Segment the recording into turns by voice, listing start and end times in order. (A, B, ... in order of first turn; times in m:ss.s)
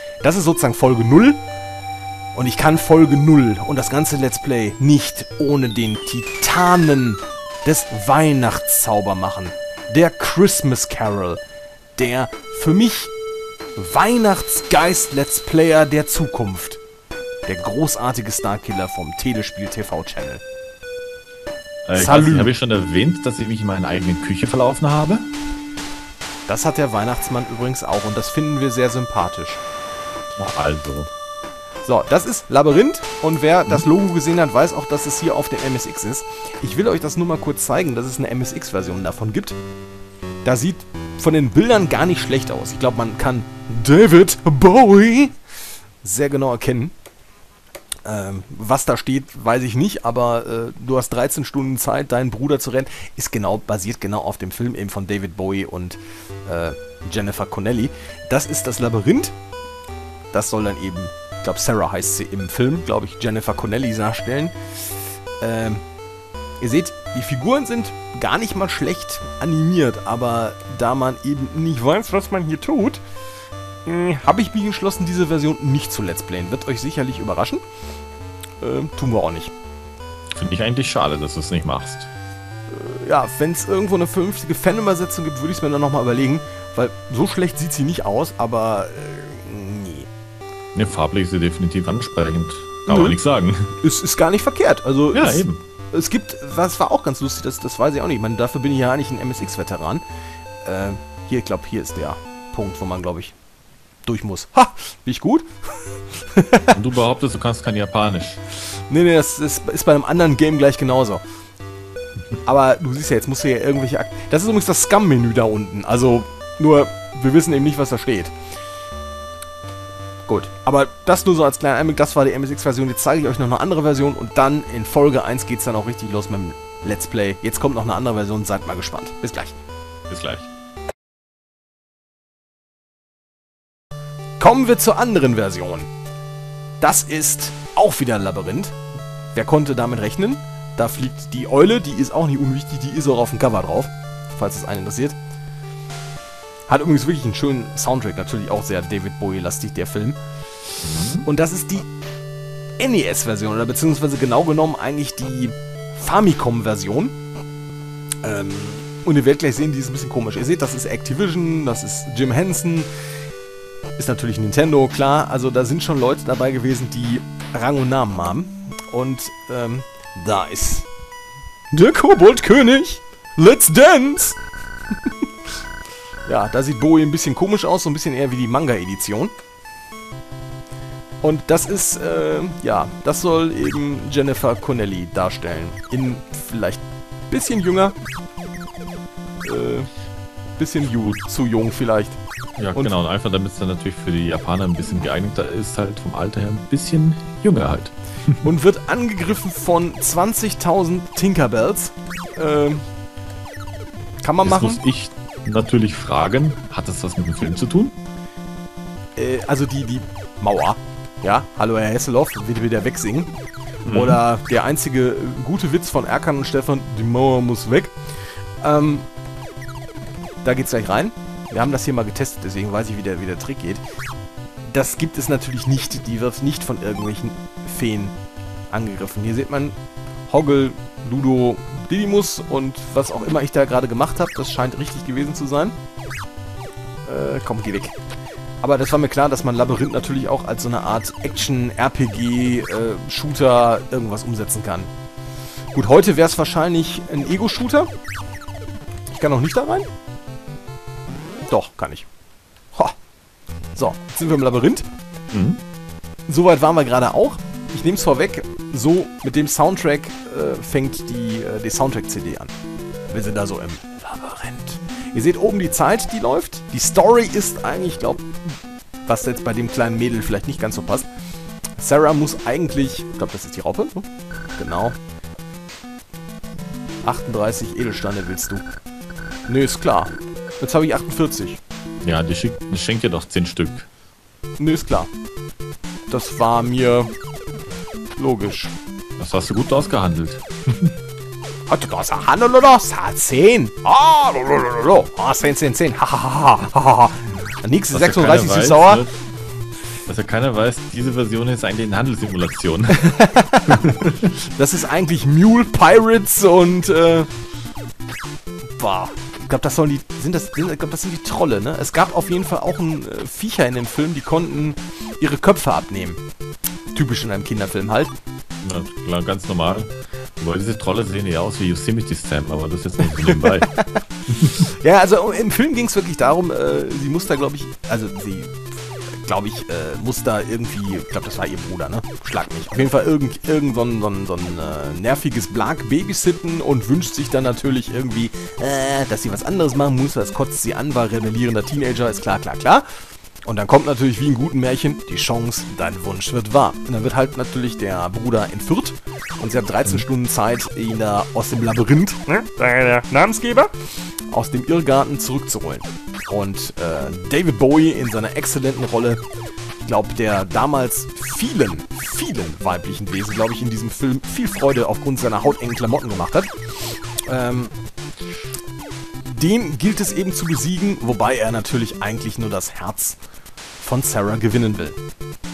0:00.2-0:01.4 A
0:02.3-0:11.4 A
0:12.0-0:13.1 A
0:13.8-0:16.8 A
0:17.5-0:20.4 A
0:21.8-0:25.3 B
0:21.9-0:22.5 A
0:26.5-0:29.6 A
0:30.4-0:31.1 B
0:31.8-0:39.6 A
0:40.4-0:45.4 A
0:46.0-0:46.9 A
0:48.0-0:59.3 A
1:00.3-1:04.5 A
1:05.4-1:05.8 A
1:06.6-1:13.0 A
1:13.8-1:17.6 A
1:18.6-1:19.5 A
1:20.4-1:22.1 B
1:22.7-1:30.1 A
1:30.7-1:33.8 B
1:32.9-1:33.2 A
1:33.8-1:40.0 A
1:35.1-1:35.6 B
1:40.6-1:43.3 A
1:44.0-1:46.8 A
1:46.7-1:48.4 B
1:48.9-1:51.2 A
1:52.4-1:58.3 A
2:00.3-2:09.6 A
2:10.1-2:10.5 B
2:14.4-2:15.9 A
2:16.8-2:18.7 A
2:19.3-2:25.2 A
2:26.7-2:30.2 A
2:30.8-2:31.2 B
2:31.2-2:31.9 A
2:32.8-2:37.1 A
2:38.2-2:42.9 A
2:44.0-2:50.9 A
2:51.7-2:54.4 A
2:56.3-2:59.3 A
3:01.2-3:08.0 A
3:09.4-3:09.9 A
3:10.6-3:12.2 A
3:12.6-3:18.4 B
3:18.4-3:22.8 A
3:24.2-3:24.8 A
3:24.4-3:27.9 B
3:29.2-3:33.3 A
3:33.8-3:34.2 B
3:33.9-3:37.9 A
3:38.6-3:39.1 A
3:40.4-3:43.8 A
3:44.7-3:48.1 A
3:48.7-3:49.8 A
3:50.3-3:55.8 A
3:57.0-3:58.0 A
3:58.6-4:04.9 A
4:05.7-4:07.9 A
4:09.1-4:09.9 A
4:11.5-4:12.1 A
4:13.8-4:14.8 A
4:15.3-4:15.6 B
4:16.3-4:22.5 A
4:23.1-4:28.3 A
4:29.0-4:31.1 A
4:31.8-4:34.0 A
4:34.6-4:35.0 A
4:37.0-4:38.6 A
4:39.5-4:41.6 A
4:42.0-4:43.9 B
4:44.6-4:45.1 A
4:46.1-4:47.1 A
4:48.2-4:48.7 A
4:49.2-4:50.9 B
4:51.7-4:59.0 A
4:57.9-4:59.1 B
5:00.1-5:03.2 B
5:03.0-5:07.3 A
5:03.7-5:04.2 B
5:08.8-5:16.2 A
5:16.9-5:18.1 A
5:18.6-5:23.7 B
5:23.3-5:28.6 A
5:24.3-5:24.6 B
5:29.2-5:42.8 A
5:43.4-5:53.7 A
5:54.3-5:59.2 A
5:59.8-6:07.7 A
6:09.2-6:13.2 A
6:13.8-6:15.0 A